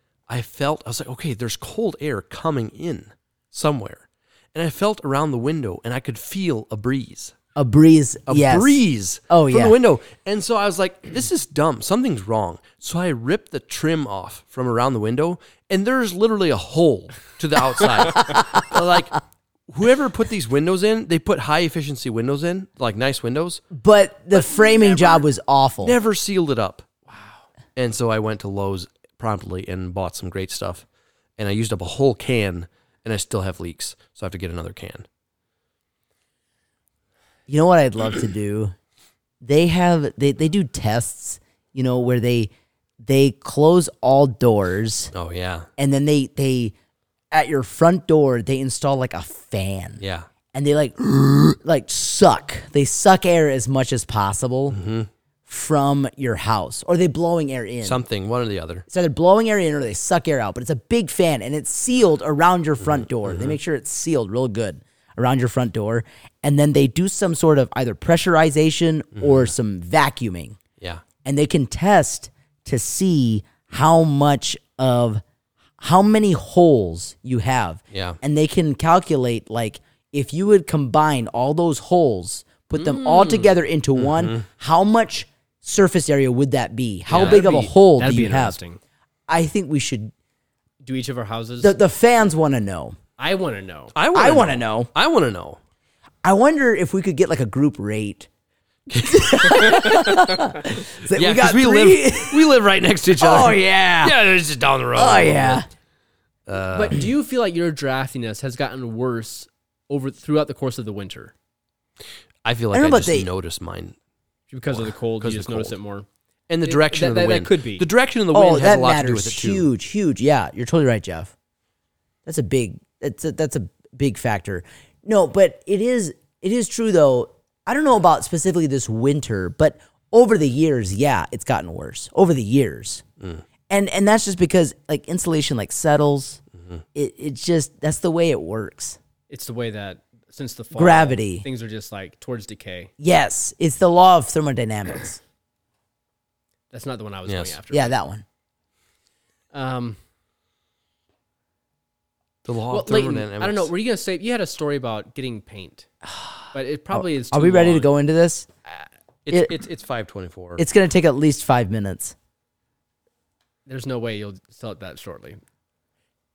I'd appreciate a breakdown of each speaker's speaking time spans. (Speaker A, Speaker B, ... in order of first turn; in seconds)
Speaker A: 0.3-7.3, 8.3-23.6, 24.3-25.2, 25.8-26.9, 27.8-30.8, 31.4-35.0, 45.1-45.7, 50.0-50.3, 54.7-55.1, 57.8-58.8, 63.2-63.6, 69.2-69.5, 77.9-78.2, 84.0-84.4, 87.1-87.4, 93.9-95.6, 99.0-100.3, 101.1-105.6, 106.5-107.0, 112.4-113.9, 114.7-115.8, 116.5-119.7, 147.2-147.6, 152.4-153.7, 159.2-160.6
Speaker B: 7.5-9.8, 23.7-26.0, 37.5-38.7, 39.4-42.5, 43.0-45.1, 45.8-46.7, 47.3-50.0, 50.5-54.8, 55.5-58.0, 58.9-70.6, 71.2-75.2, 75.8-88.6, 89.3-90.1, 91.6-93.0, 94.1-94.9, 96.2-98.3, 98.9-102.5, 103.2-104.2, 104.9-105.7, 112.7-113.3, 118.3-121.3, 122.2-133.0, 133.7-136.4, 136.9-139.0, 140.7-141.4, 143.0-145.2, 147.7-148.2, 156.1-158.5, 160.6-162.1
Speaker C: 27.1-27.4, 82.7-83.5, 87.1-88.8, 90.8-91.8, 93.2-93.9, 106.7-111.3, 114.5-116.1, 116.6-117.8, 139.3-142.9, 146.7-147.9, 149.5-150.0, 152.7-155.9, 156.5-157.9, 163.7-165.4